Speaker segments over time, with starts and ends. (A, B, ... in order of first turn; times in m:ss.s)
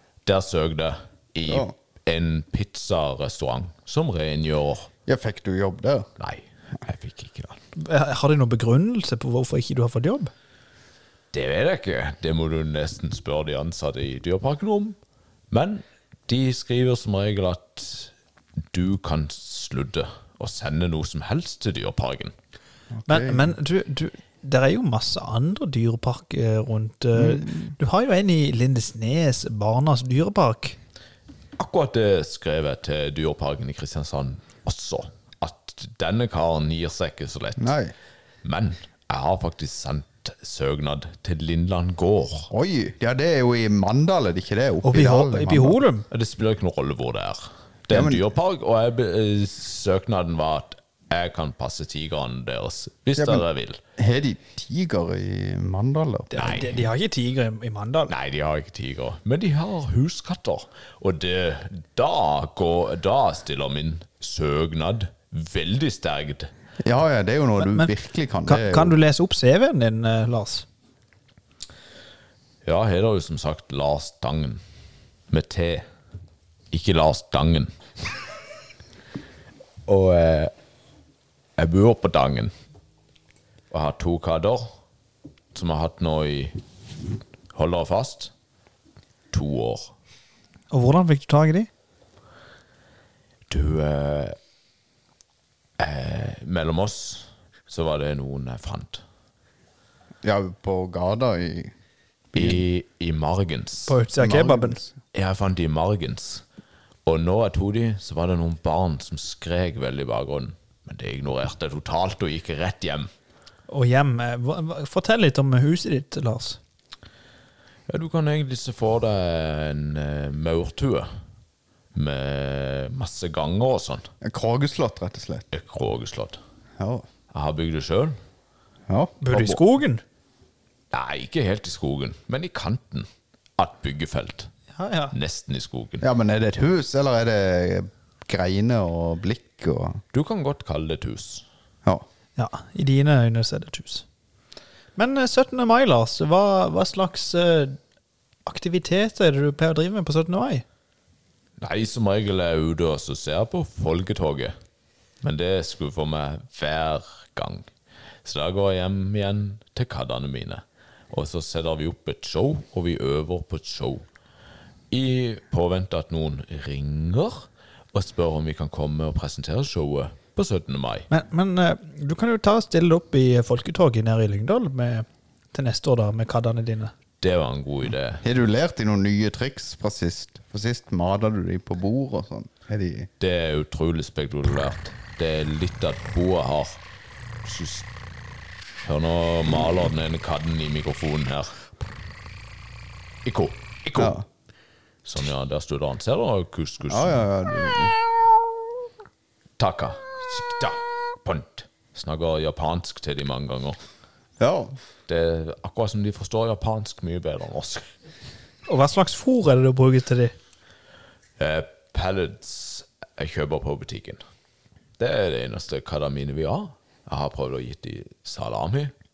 0:00.2-0:04.9 A
0:01.4-0:01.7 B
0:05.1-0:06.1 B
0:06.2-0:07.6 A
0:07.8-0:10.3 C
0:11.3-0:15.0 A
0:15.5-0:18.1 A
0:18.7-0:22.3 A
0:22.9-0:23.5 B
0:23.1-0:30.8 C
0:27.1-0:27.7 B
0:31.6-0:37.8 A
0:37.6-0:37.9 B
0:38.4-0:42.5 A
0:42.5-0:45.8 B
0:44.8-0:46.0 C
0:46.1-0:53.8 A
0:47.9-0:48.2 B
0:53.2-0:53.4 B
0:54.0-0:56.3 B
0:56.3-0:58.1 C
0:56.4-0:56.8 A
0:58.1-1:06.5 A
1:06.8-1:08.9 B
1:07.6-1:07.9 C
1:08.5-1:10.6 C
1:12.6-1:14.6 A
1:15.3-1:15.8 A
1:16.7-1:17.7 A
1:19.9-1:20.5 A
1:21.6-1:22.5 A
1:23.7-1:24.7 A
1:25.5-1:26.6 A
1:27.5-1:28.3 A
1:29.3-1:29.9 A
1:30.7-1:31.7 C
1:33.5-1:34.4 A
1:35.8-1:39.0 A
1:40.2-1:41.7 B
1:42.3-1:42.6 B
1:42.3-1:44.0 A
1:43.9-1:44.8 C
1:44.2-1:44.9 B
1:45.1-1:46.4 A
1:47.0-1:53.1 A
1:53.7-1:56.6 C
1:57.9-2:01.1 A
2:01.9-2:04.0 A
2:04.2-2:05.4 B
2:05.5-2:06.4 A
2:06.8-2:07.0 B
2:07.3-2:08.2 A
2:08.9-2:09.6 B
2:09.2-2:10.0 C
2:10.9-2:14.5 A
2:14.7-2:15.1 C
2:15.1-2:16.0 A
2:16.0-2:20.0 B
2:20.1-2:21.4 A
2:22.4-2:24.0 C
2:25.0-2:27.8 C
2:28.4-2:30.6 C
2:31.6-2:34.5 A
2:35.2-2:37.7 A
2:38.2-2:44.0 A
2:44.9-2:51.1 A
2:51.1-2:56.9 C
2:57.2-2:58.2 A
2:58.2-3:03.1 B
3:03.2-3:06.8 A
3:07.4-3:07.9 A
3:08.8-3:11.6 A
3:13.2-3:14.1 A
3:14.0-3:14.2 B
3:15.0-3:17.2 A
3:16.9-3:17.9 B
3:19.6-3:23.8 A
3:24.4-3:24.7 B
3:25.1-3:27.8 A
3:28.7-3:30.3 C
3:31.4-3:34.2 A
3:35.0-3:38.9 A